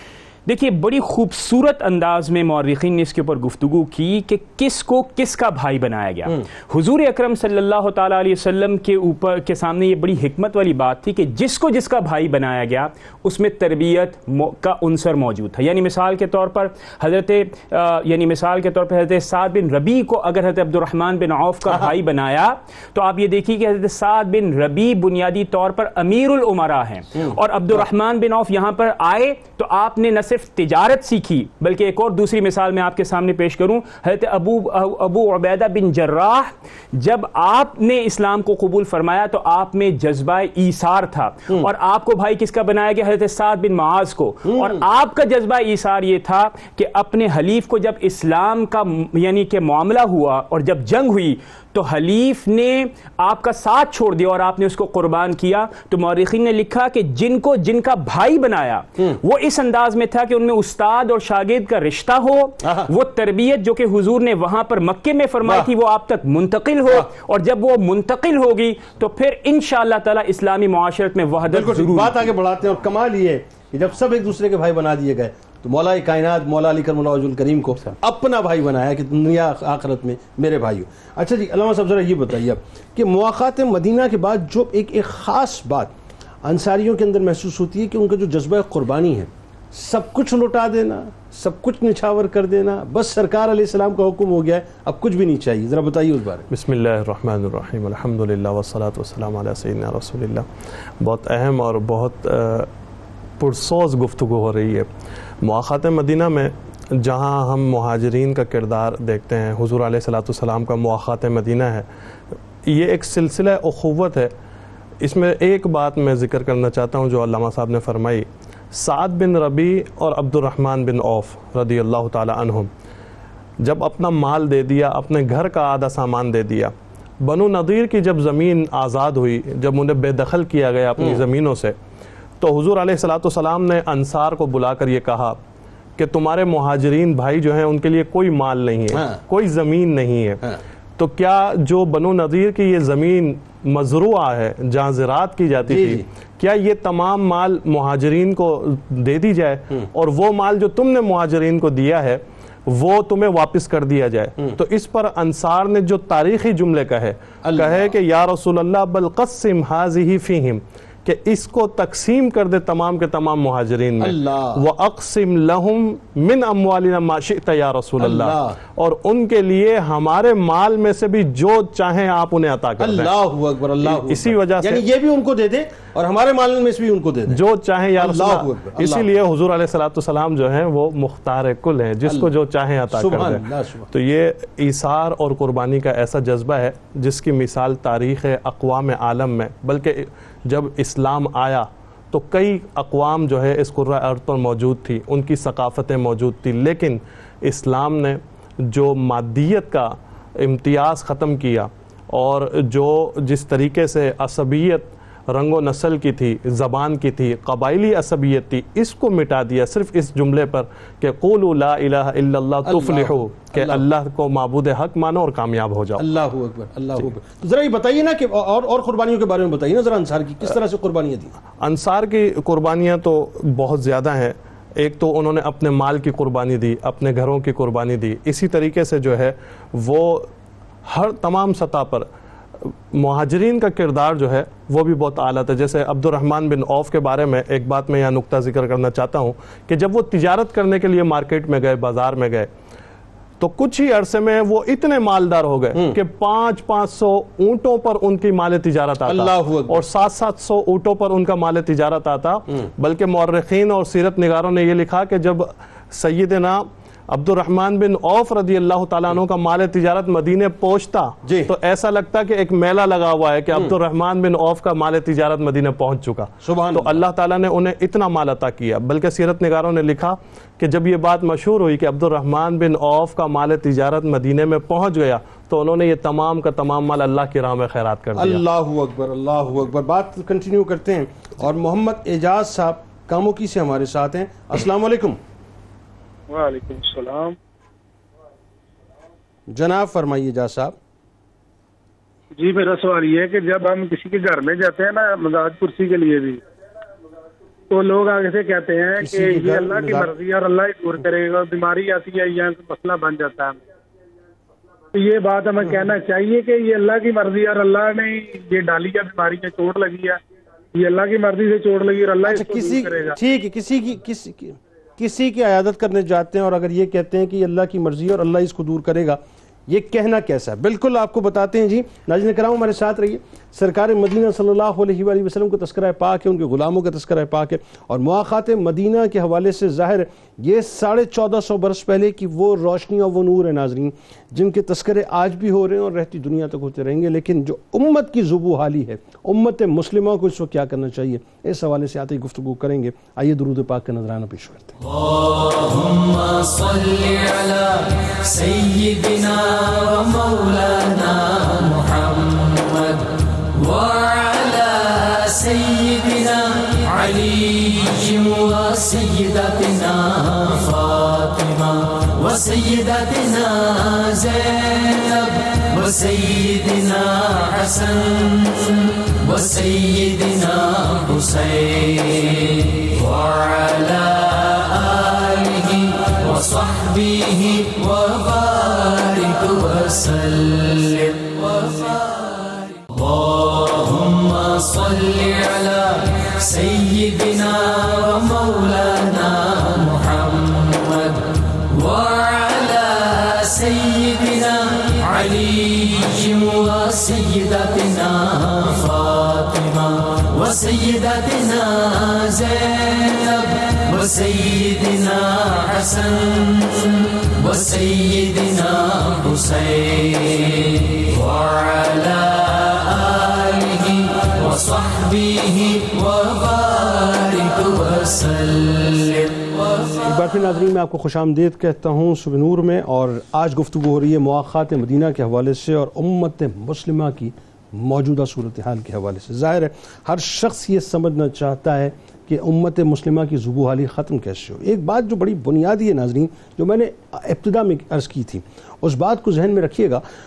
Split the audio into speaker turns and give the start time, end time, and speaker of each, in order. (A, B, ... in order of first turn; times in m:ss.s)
0:00.4-1:12.3 A
0:44.4-0:44.8 B
1:02.6-1:02.9 B
1:05.4-1:05.7 B
1:11.4-1:25.9 B
1:26.4-1:36.5 B
1:36.5-1:40.4 C
1:41.0-1:42.7 C
1:43.4-1:44.9 C
1:45.4-1:51.8 C
1:52.6-1:54.3 C
1:55.0-2:02.7 C
2:03.6-2:11.7 C
2:12.4-2:15.4 C
2:16.0-2:20.4 C
2:18.9-2:19.2 B
2:21.0-2:53.1 C
2:25.7-2:26.0 B
2:37.4-2:37.9 B
2:44.0-2:44.6 B
2:48.0-2:48.6 B
2:52.8-2:57.4 B
2:53.8-2:54.8 C
2:57.3-3:36.0 C
2:58.0-2:59.1 B
3:02.0-3:02.3 B
3:02.9-3:03.9 B
3:32.6-3:33.8 B
3:36.0-3:41.3 B
3:41.6-3:50.3 C
3:50.9-3:52.1 C
3:52.6-4:02.5 C
4:03.4-4:38.4 C
4:09.0-4:09.8 B
4:21.2-4:21.5 B
4:26.4-4:27.0 B
4:38.1-4:45.2 B
4:46.3-4:47.4 D
4:49.5-4:50.8 B
4:52.4-4:56.4 D
4:57.7-5:03.6 D
4:59.0-5:00.1 B
5:04.9-5:10.2 D
5:10.7-5:13.2 D
5:12.2-5:44.8 B
5:45.1-6:59.6 E
7:00.0-7:20.0 B